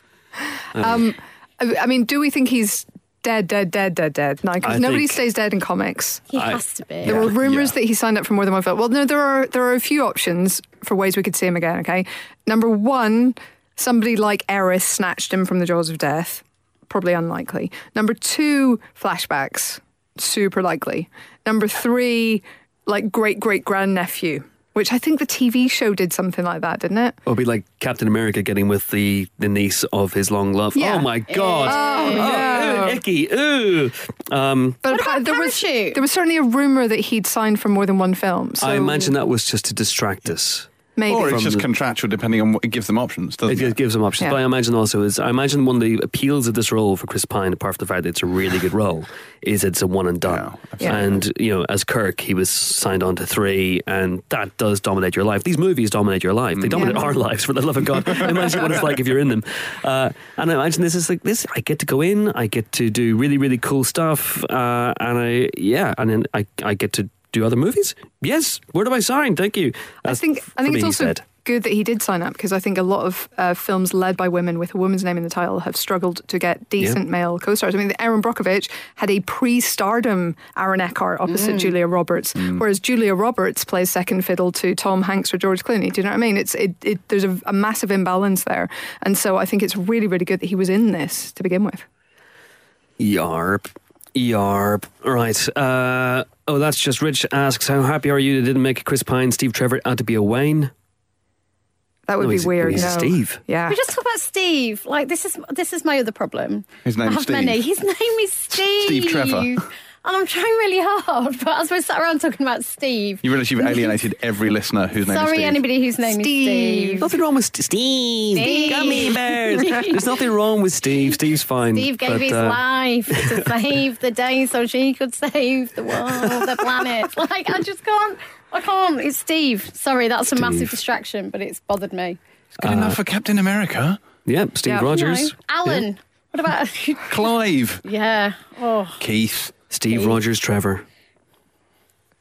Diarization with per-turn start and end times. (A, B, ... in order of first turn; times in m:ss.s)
0:00.8-0:01.0 A
0:00.8-0:06.3 B
0:04.6-0:05.2 A
0:06.3-0:07.3 C
0:07.0-0:27.2 B
0:07.1-0:07.7 D
0:27.3-0:34.8 A
0:30.8-0:31.1 B
0:31.3-0:32.8 C
0:31.6-0:33.0 B
0:34.8-0:39.1 B
0:34.9-0:36.0 C
0:38.6-0:41.7 A
0:41.0-0:41.4 B
0:41.1-0:43.8 D
0:43.5-1:11.2 A
0:50.2-0:51.2 D
0:56.6-0:57.0 D
0:56.7-0:57.0 B
1:10.1-1:31.9 B
1:21.3-1:21.7 C
1:33.0-1:40.7 A
1:42.1-1:43.8 B
1:42.2-1:43.4 A
1:43.7-1:54.0 C
1:46.8-1:47.6 D
1:48.5-1:49.6 D
1:53.2-1:55.6 D
1:55.0-1:57.0 C
1:56.0-1:57.1 B
1:57.0-2:02.6 A
1:58.4-2:00.0 C
1:58.5-1:59.1 B
2:01.7-2:12.2 C
2:03.1-2:03.4 A
2:06.1-2:06.7 A
2:10.4-2:10.7 A
2:12.6-2:14.0 D
2:12.6-2:13.0 A
2:14.3-2:15.9 A
2:14.7-2:19.0 C
2:17.1-2:17.8 D
2:19.0-2:19.6 D
2:19.7-2:20.8 A
2:19.9-2:20.2 C